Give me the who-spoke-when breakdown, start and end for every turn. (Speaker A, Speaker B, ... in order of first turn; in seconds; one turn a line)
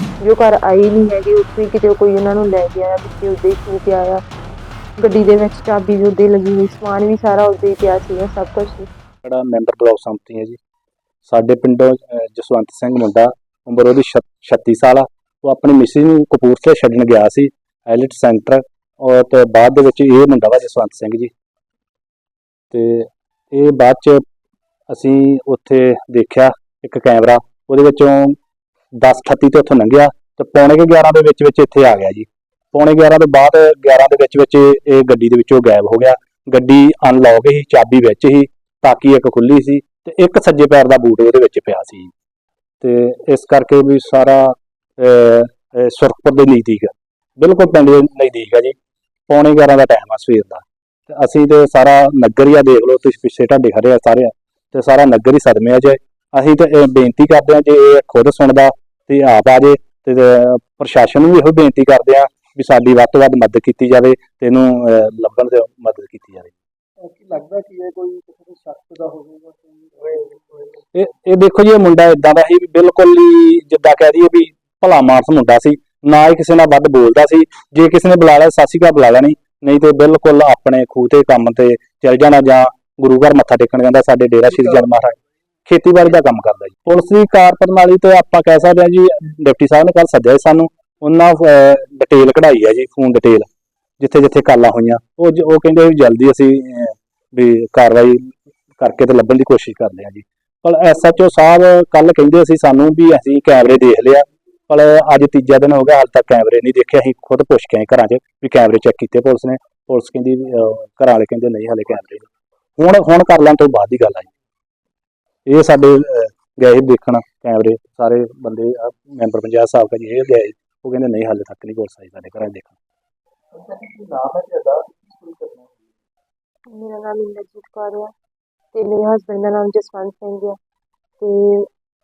Speaker A: 0.2-4.2
Speaker A: 5.0-8.9
Speaker B: 9.2-10.6
Speaker B: 11.2-21.3
Speaker B: 22.7-24.2
Speaker B: 24.9-28.4
Speaker B: 29.0-42.1
Speaker B: 42.8-48.8
Speaker B: 49.3-66.5
Speaker C: 67.0-70.7
Speaker B: 70.9-93.5
Speaker B: 94.0-112.3
Speaker B: 112.8-114.3
Speaker B: 115.5-122.8
Speaker C: 123.5-125.8
Speaker A: 126.7-128.1
Speaker A: 128.7-130.6
Speaker A: 131.2-131.7